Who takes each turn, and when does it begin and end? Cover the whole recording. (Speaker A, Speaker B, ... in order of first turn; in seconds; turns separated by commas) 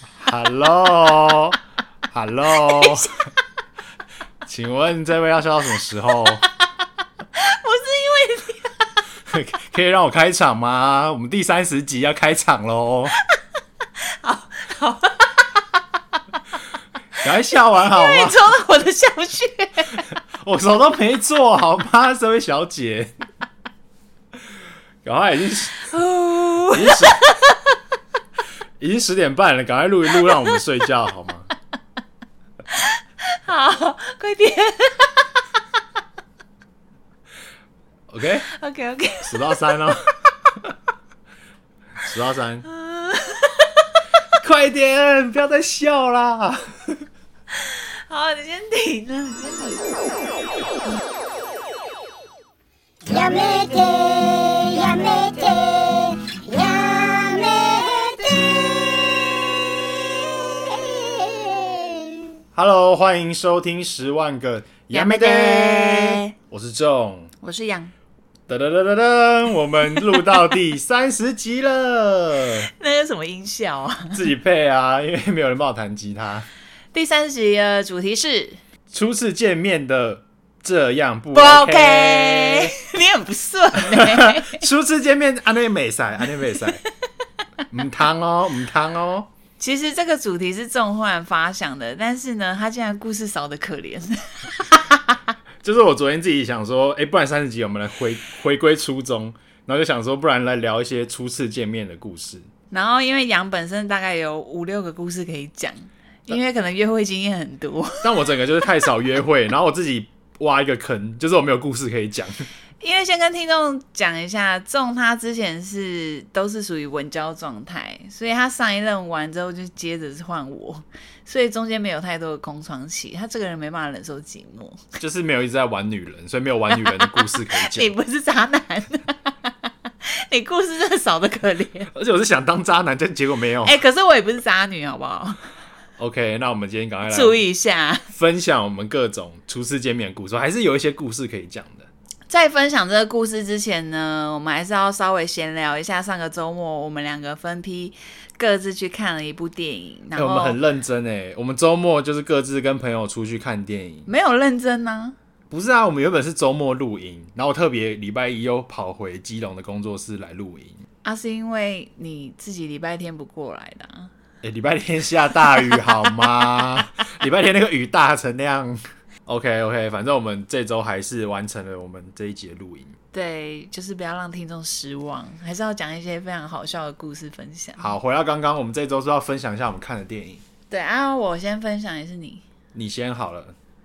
Speaker A: 0.2-3.1, Speaker B: 2.5-3.1, Speaker A: 4.5-6.4, Speaker B: 7.3-9.0, Speaker A: 9.3-13.2, Speaker B: 14.0-15.8, Speaker A: 17.2-18.5, Speaker B: 17.8-20.1, Speaker A: 20.4-23.1, Speaker A: 25.0-25.9, Speaker B: 25.8-27.6, Speaker A: 26.7-27.2, Speaker A: 28.8-31.5, Speaker B: 32.7-35.3, Speaker A: 38.1-38.5, Speaker B: 38.5-39.9, Speaker A: 39.2-40.1, Speaker A: 42.0-42.6, Speaker B: 42.7-44.0, Speaker A: 44.4-46.7, Speaker B: 47.5-49.9, Speaker C: 53.0-59.4, Speaker C: 60.0-62.2, Speaker A: 62.5-67.3, Speaker B: 64.9-66.3, Speaker B: 67.4-67.9, Speaker A: 68.5-72.7, Speaker B: 72.7-74.2, Speaker A: 74.1-76.5, Speaker B: 76.9-78.6, Speaker A: 78.9-82.7, Speaker B: 81.3-84.6, Speaker A: 83.8-86.8, Speaker A: 87.7-89.3, Speaker B: 89.6-95.3, Speaker A: 95.6-102.5, Speaker B: 102.7-108.1, Speaker A: 108.0-112.5, Speaker B: 112.8-124.8, Speaker A: 125.0-127.9, Speaker B: 126.7-129.3, Speaker B: 130.0-131.9, Speaker A: 131.9-133.8, Speaker B: 133.6-135.4, Speaker A: 136.0-137.4, Speaker B: 137.1-138.0, Speaker A: 138.1-141.9, Speaker B: 142.3-150.6, Speaker A: 150.1-154.1, Speaker B: 154.1-155.2, Speaker A: 155.5-160.8, Speaker B: 161.0-164.1, Speaker A: 164.4-172.9, Speaker B: 165.6-166.1, Speaker B: 173.1-177.9, Speaker A: 177.8-180.4, Speaker B: 180.7-182.4, Speaker A: 182.7-183.5